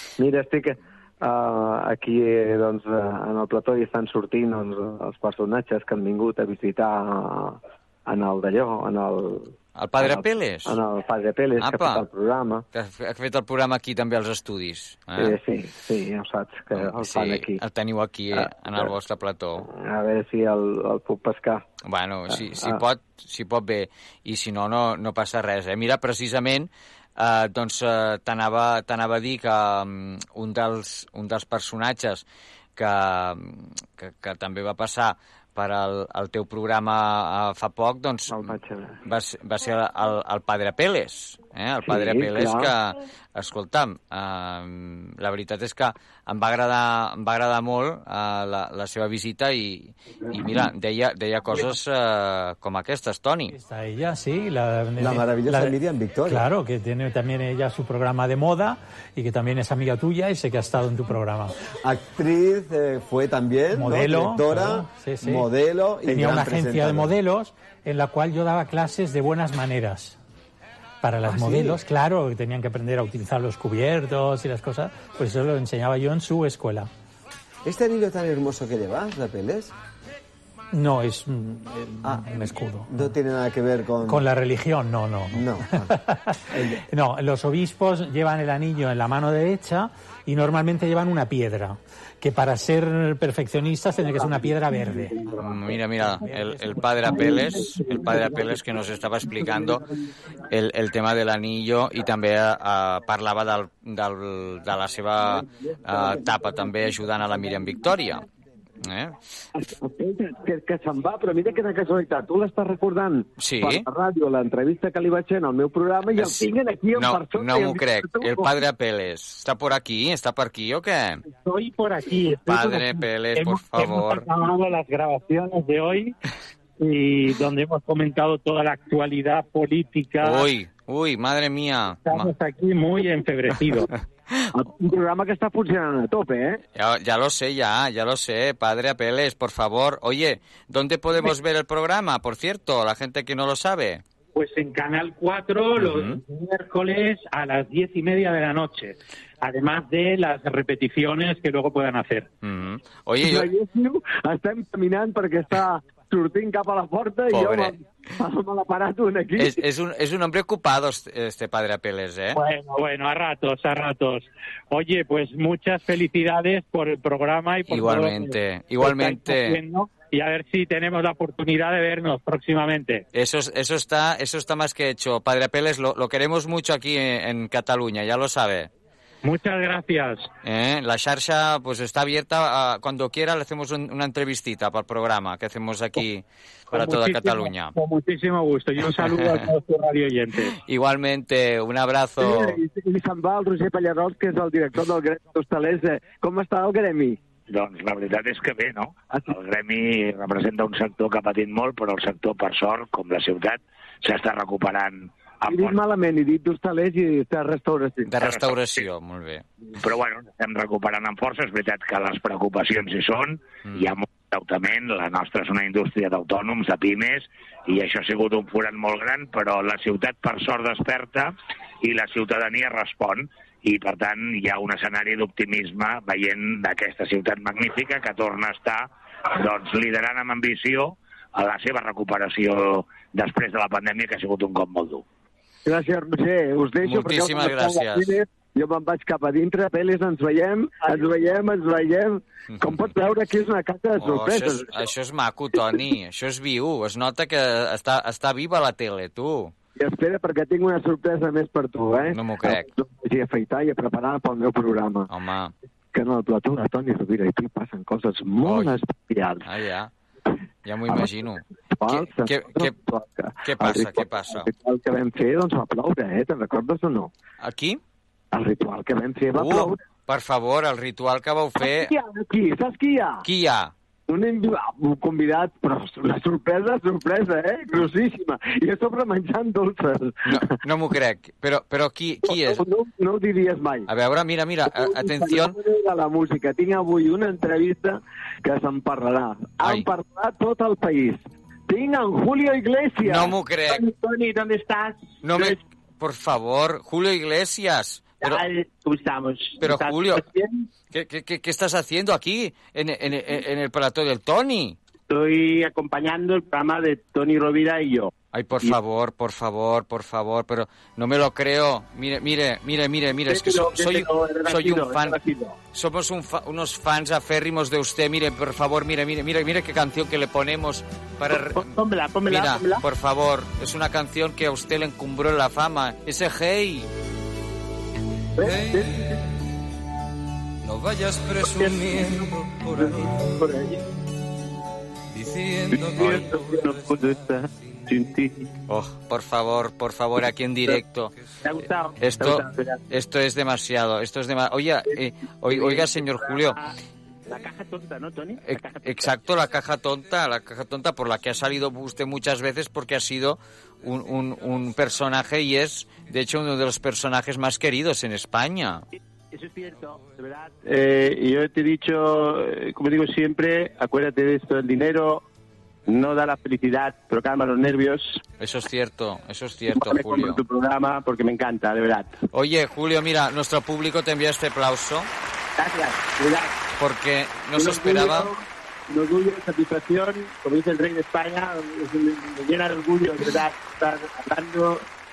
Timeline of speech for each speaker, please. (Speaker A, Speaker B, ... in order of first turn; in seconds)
Speaker A: 0.2-12.6, 15.2-17.6, 18.3-18.9, 19.6-21.7, 22.3-22.8, 38.3-39.0, 41.9-42.7, 95.0-95.4, 97.1-98.6, 99.4-99.8, 105.6-106.3, 109.6-118.5, 134.5-136.6, 153.2-159.6, 192.2-197.2, 205.4-208.1, 235.6-244.9, 249.8-255.1, 255.9-259.4, 261.7-267.1, 268.3-269.8, 271.6-273.2, 274.1-280.6, 282.2-283.9, 284.6-293.3
Speaker B: 9.8-10.8, 11.6-12.1, 12.7-15.4, 16.7-19.7, 21.8-32.2, 32.8-53.5, 95.4-99.8, 100.5-108.2, 108.8-109.2, 113.4-113.9, 116.1-121.2, 122.4-124.3, 130.2-132.3, 136.7-144.0, 145.8-146.2, 152.4-153.5, 157.3-157.7, 159.3-162.4, 167.7-169.6, 173.1-178.7, 180.4-187.8, 189.1-189.5, 190.6-192.6, 208.1-209.4, 213.6-213.9, 236.8-238.2, 242.6-242.9, 244.0-249.5, 252.1-252.7, 255.1-255.5, 258.4-258.8, 259.4-259.9, 260.6-262.7, 263.4-264.5, 267.4-267.8, 269.3-271.9, 273.2-273.7, 280.2-282.6, 283.9-285.6, 289.6-289.9, 293.0-293.8, 295.2-298.4, 299.6-300.3, 300.9-304.8, 308.3-315.2, 315.7-326.9, 338.7-341.1, 342.0-346.6, 348.4-358.8, 368.4-370.4, 372.3-375.1, 376.8-378.3
Speaker C: 53.5-55.8, 56.3-61.5, 63.7-65.5, 66.0-70.2, 71.0-76.9, 80.7-82.9, 84.1-86.2, 86.9-95.2
Speaker D: 55.0-56.5, 61.8-67.1, 71.2-71.8, 77.6-79.7, 82.0-84.2, 85.3-85.9, 86.5-86.8
Speaker E: 121.3-126.1, 126.8-130.5, 132.1-133.9, 144.3-152.3, 162.3-173.0, 179.2-180.3, 186.7-190.6
Speaker F: 197.5-205.8, 208.2-208.8, 209.8-235.0
Speaker G: 293.7-295.6, 298.2-300.4, 305.1-308.1, 313.2-315.5, 321.4-322.8, 328.4-328.9, 331.4-332.2, 332.8-333.8, 335.7-338.5, 341.4-342.8, 345.5-346.7, 347.3-349.1, 359.3-365.2, 365.9-368.2, 369.7-372.2, 375.6-376.5, 377.6-384.9
Speaker H: 328.4-329.2, 330.6-333.3, 335.1-337.0